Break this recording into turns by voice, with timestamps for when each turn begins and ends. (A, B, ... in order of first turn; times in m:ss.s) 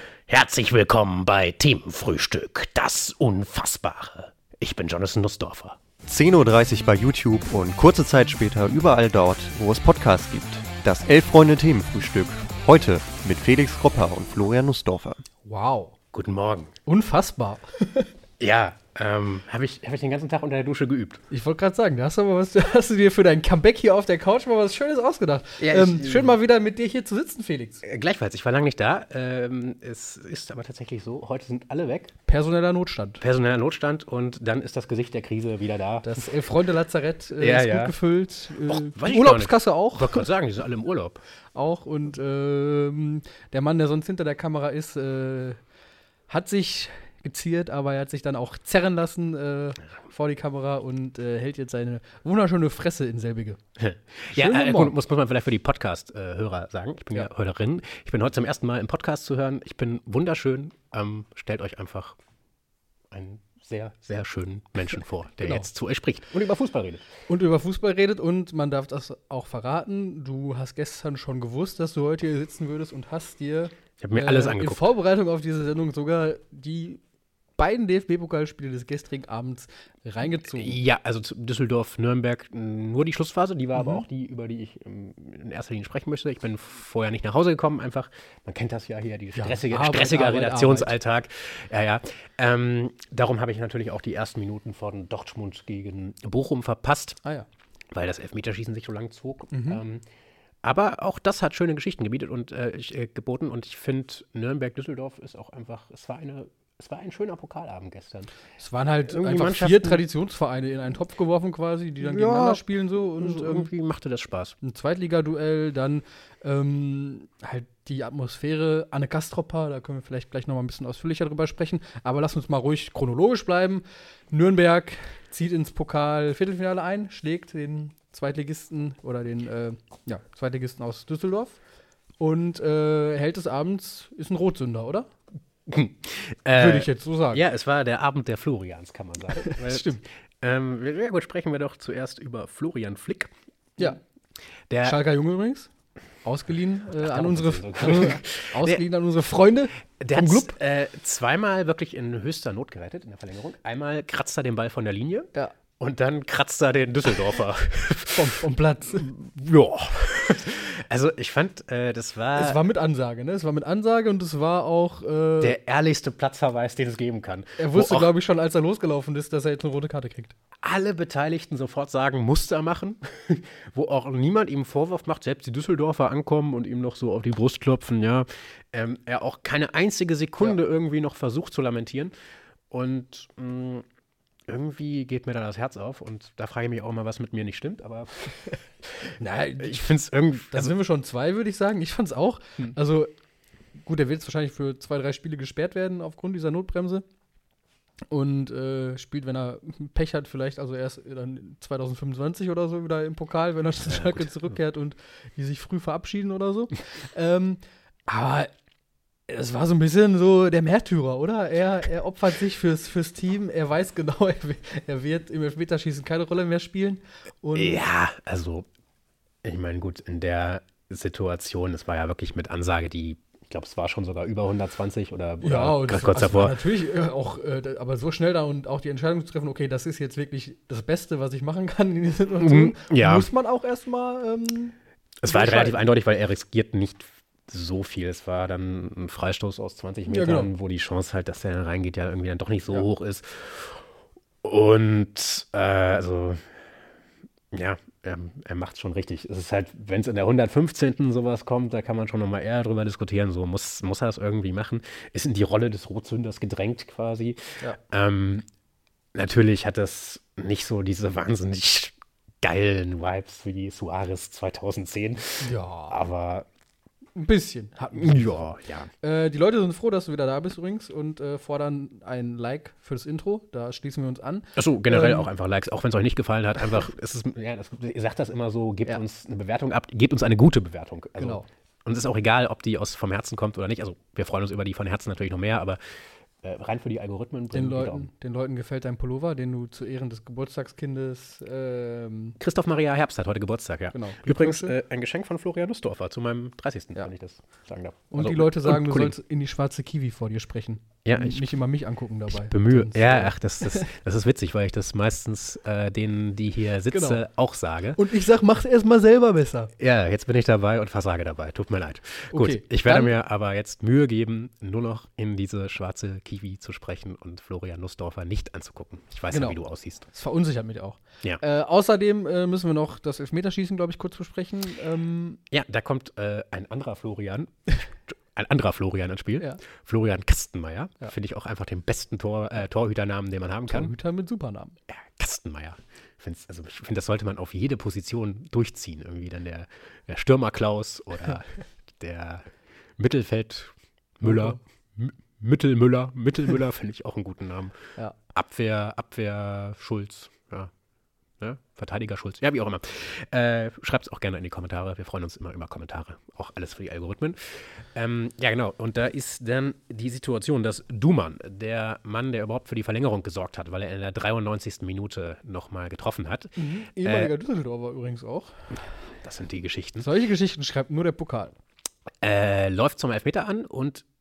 0:00.3-0:05.8 A
0:06.1-0:15.2 B
0:15.4-0:16.0 C
0:16.1-0:16.7 A
0:16.8-0:18.1 C
0:18.4-0:21.2 A
0:21.3-0:27.8 C
0:25.6-0:26.3 A
0:27.8-0:32.1 A
0:32.3-0:33.2 C
0:33.2-0:36.2 A
0:36.0-0:40.3 C
0:37.4-0:37.9 A
0:38.6-0:41.2 A
0:41.5-0:45.6 C
0:46.3-0:53.6 C
0:53.8-1:02.2 A
0:54.3-0:55.0 C
1:03.1-1:07.1 A
1:07.3-1:17.0 C
1:14.0-1:14.9 A
1:17.6-1:20.8 C
1:20.4-1:37.2 A
1:23.8-1:24.0 C
1:29.4-1:30.9 C
1:37.9-1:40.0 A
1:39.5-1:39.8 C
1:40.6-1:48.3 A
1:48.6-1:53.7 C
1:49.0-1:50.0 A
1:52.0-1:54.6 A
1:54.6-2:11.6 C
2:12.2-2:15.1 C
2:15.7-2:24.0 A
2:16.6-2:17.4 C
2:19.4-2:20.0 C
2:24.7-2:25.0 A
2:24.8-2:25.7 C
2:26.2-2:30.5 C
2:26.9-2:28.8 A
2:30.0-2:38.4 A
2:38.1-2:39.1 C
2:38.9-2:42.6 A
2:42.4-2:45.6 C
2:45.4-2:48.1 A
2:47.6-2:50.3 C
2:50.6-3:02.1 A
3:02.7-3:03.8 A
3:04.5-3:10.7 A
3:09.2-3:09.9 C
3:10.5-3:13.1 C
3:13.8-3:17.0 C
3:18.1-3:28.5 C
3:23.8-3:24.3 A
3:29.3-3:37.8 C
3:37.5-3:38.6 A
3:39.4-3:46.6 A
3:45.4-3:54.8 C
3:52.4-3:53.3 A
3:55.2-4:03.8 A
3:55.3-3:55.8 C
4:00.1-4:00.5 C
4:04.4-4:06.4 A
4:07.5-4:18.4 A
4:19.1-4:26.5 A
4:25.4-4:25.9 C
4:27.1-4:28.4 C
4:27.9-4:28.9 A
4:29.0-4:35.3 C
4:34.6-4:48.1 A
4:41.2-4:41.4 C
4:47.5-4:52.4 C
4:52.4-4:59.1 A
4:53.9-4:54.7 C
4:58.1-5:03.9 C
5:01.0-5:01.4 A
5:02.3-5:08.0 A
5:06.9-5:07.2 C
5:07.9-5:09.7 C
5:09.8-5:20.1 A
5:12.3-5:13.1 C
5:19.3-5:19.6 C
5:20.1-5:25.4 C
5:25.5-5:33.9 A
5:33.7-5:34.8 C
5:34.9-5:50.7 A
5:44.2-5:44.6 C
5:51.4-6:07.3 A
6:06.6-6:08.7 C
6:09.2-6:10.1 A
6:10.0-6:11.6 C
6:12.2-6:14.0 A